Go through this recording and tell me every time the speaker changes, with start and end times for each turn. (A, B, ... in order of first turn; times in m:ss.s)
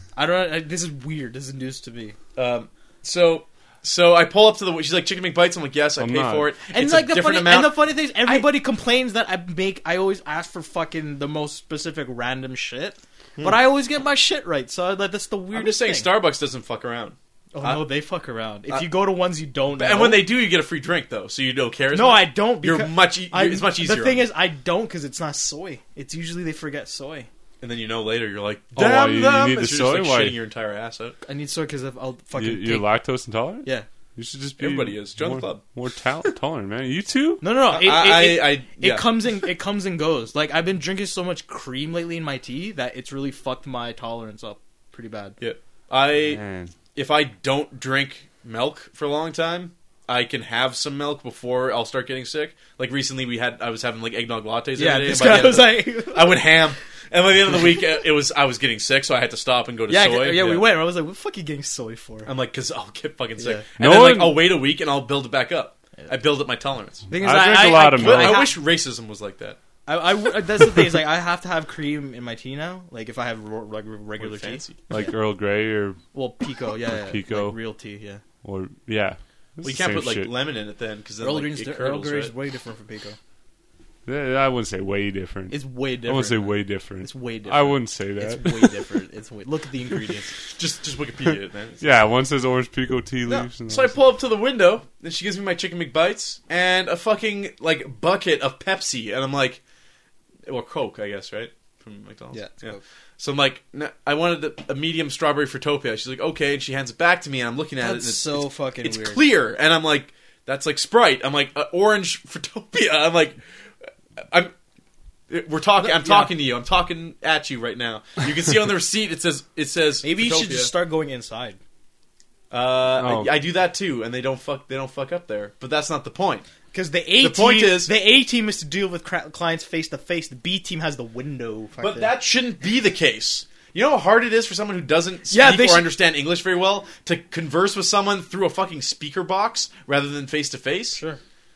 0:00.2-0:02.2 A
0:02.4-0:08.5 B
0:06.0-0:06.5 C
0:06.7-0:16.1 A
0:15.5-0:17.8 B
0:17.5-0:20.3 A
0:19.8-0:24.3 B
0:21.9-0:27.3 A
0:27.6-0:31.2 B
0:28.8-0:30.4 C
0:31.2-0:32.9 A
0:32.4-0:37.4 C
0:34.6-0:35.6 B
0:37.4-0:45.4 A
0:37.7-0:39.1 B
0:45.4-0:46.4 B
0:46.2-0:46.7 C
0:47.0-1:00.7 B
0:54.8-0:56.5 A
0:59.9-1:02.3 A
1:02.3-1:07.1 B
1:03.4-1:03.6 A
1:03.8-1:04.4 C
1:07.1-1:08.6 A
1:07.2-1:08.5 C
1:08.0-1:09.6 B
1:09.9-1:15.1 A
1:14.2-1:14.8 B
1:14.9-1:16.0 C
1:16.1-1:18.2 A
1:16.9-1:17.6 C
1:18.4-1:20.3 C
1:19.6-1:22.3 B
1:21.2-1:23.2 A
1:24.1-1:28.9 C
1:25.5-1:30.3 A
1:30.6-1:31.9 B
1:31.8-1:34.0 C
1:33.3-1:39.6 B
1:40.5-1:54.5 B
1:42.3-1:42.8 A
1:47.8-1:49.2 A
1:55.3-2:00.7 B
1:55.8-1:56.3 A
2:00.0-2:01.6 A
2:02.5-2:06.5 B
2:03.0-2:03.3 C
2:06.7-2:12.1 A
2:07.2-2:07.9 B
2:11.8-2:21.0 B
2:15.3-2:15.9 A
2:21.0-2:21.2 A